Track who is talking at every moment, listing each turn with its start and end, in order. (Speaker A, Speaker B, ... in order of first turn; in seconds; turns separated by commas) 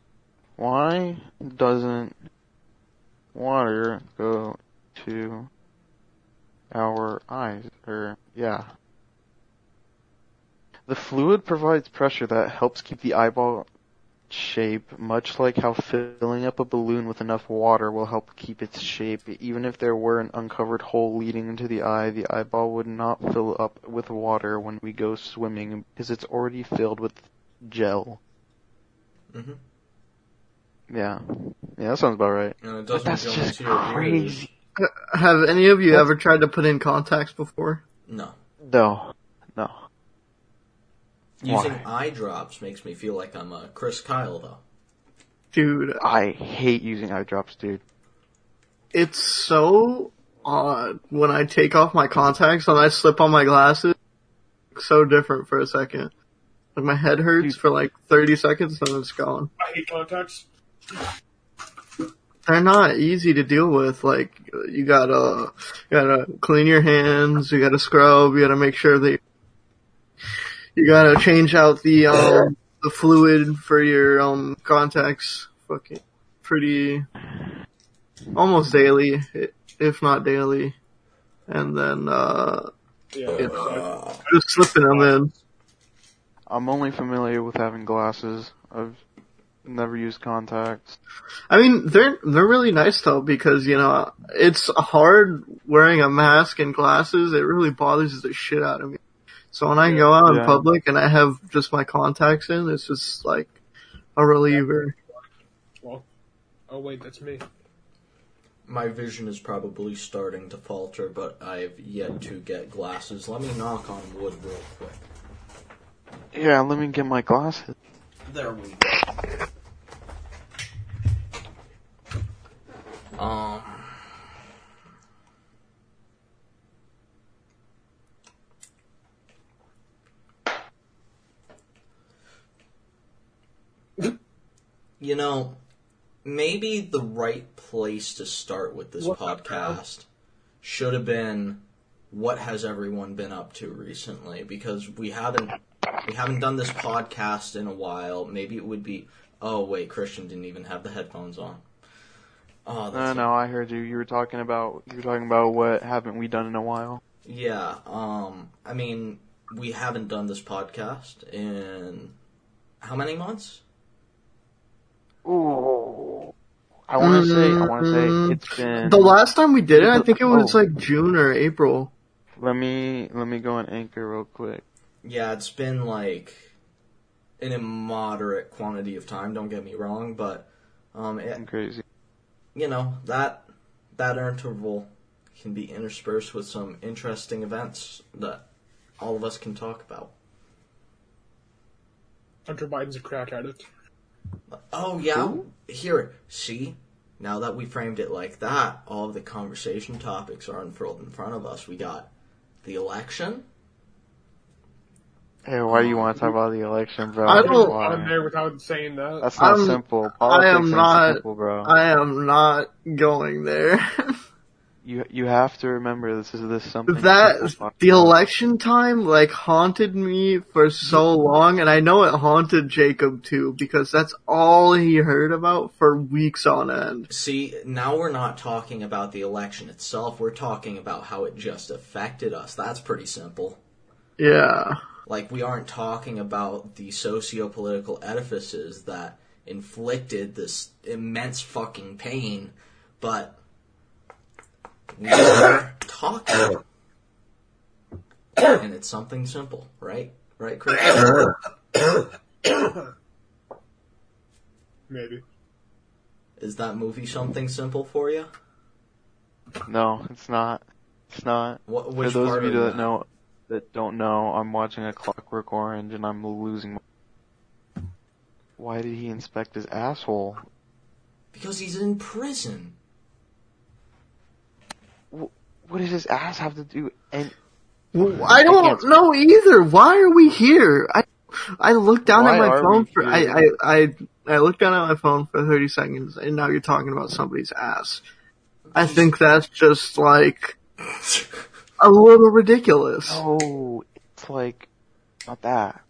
Speaker A: 0.6-2.2, Speaker A: 3.3-5.5, Speaker A: 6.7-8.7, Speaker A: 10.9-13.7, Speaker A: 14.3-28.2, Speaker B: 29.3-29.6, Speaker A: 30.9-34.5, Speaker B: 32.6-34.5, Speaker C: 34.8-37.8, Speaker B: 38.1-38.4, Speaker A: 38.6-39.8, Speaker B: 41.4-44.6, Speaker A: 41.5-41.8, Speaker C: 45.5-46.0, Speaker A: 46.0-47.8, Speaker C: 48.9-54.0, Speaker C: 54.8-56.1, Speaker C: 56.8-59.5, Speaker D: 59.6-60.5, Speaker C: 62.5-69.2, Speaker C: 70.8-77.1, Speaker C: 78.3-80.8, Speaker C: 81.5-82.7, Speaker D: 83.1-84.0, Speaker B: 83.3-84.2, Speaker C: 83.4-85.3, Speaker D: 84.9-85.4, Speaker A: 86.5-89.0, Speaker A: 89.7-91.0, Speaker C: 91.5-99.0, Speaker C: 99.5-103.5, Speaker D: 99.8-100.2, Speaker A: 100.2-100.6, Speaker C: 104.2-104.9, Speaker D: 106.7-107.4, Speaker B: 108.7-115.1, Speaker A: 116.3-117.8, Speaker B: 118.3-119.1, Speaker B: 123.2-124.0, Speaker B: 135.0-135.6, Speaker B: 136.2-140.1, Speaker D: 139.0-139.8, Speaker B: 140.6-151.6, Speaker B: 152.7-153.3, Speaker A: 152.9-157.0, Speaker B: 157.2-162.2, Speaker B: 162.8-163.6, Speaker A: 165.2-166.3, Speaker A: 166.9-169.2, Speaker C: 167.0-171.9, Speaker A: 169.7-170.6, Speaker A: 172.4-174.6, Speaker B: 175.0-176.5, Speaker B: 177.4-181.4, Speaker A: 181.4-181.8, Speaker B: 182.6-188.5, Speaker B: 189.0-190.1, Speaker D: 192.5-193.7, Speaker B: 194.5-202.1, Speaker A: 195.1-195.5, Speaker B: 202.6-203.5, Speaker A: 205.5-208.1, Speaker B: 205.7-206.3, Speaker C: 207.3-207.8, Speaker D: 207.3-209.3, Speaker A: 209.2-211.7, Speaker C: 209.4-214.1, Speaker A: 214.8-218.2, Speaker C: 216.9-227.1, Speaker B: 227.1-233.6, Speaker C: 234.2-234.8, Speaker B: 235.1-243.4, Speaker B: 244.9-246.6, Speaker B: 248.4-251.2, Speaker D: 254.9-255.2, Speaker B: 256.4-258.3, Speaker A: 259.7-266.8, Speaker B: 261.7-262.9, Speaker A: 268.6-270.4, Speaker B: 271.3-272.8, Speaker A: 275.1-277.3, Speaker C: 277.9-281.1, Speaker A: 278.2-278.9, Speaker C: 281.6-288.0, Speaker A: 282.1-283.5, Speaker B: 288.7-289.1, Speaker C: 288.8-290.6, Speaker C: 291.8-293.2, Speaker A: 293.1-294.7, Speaker A: 295.3-295.8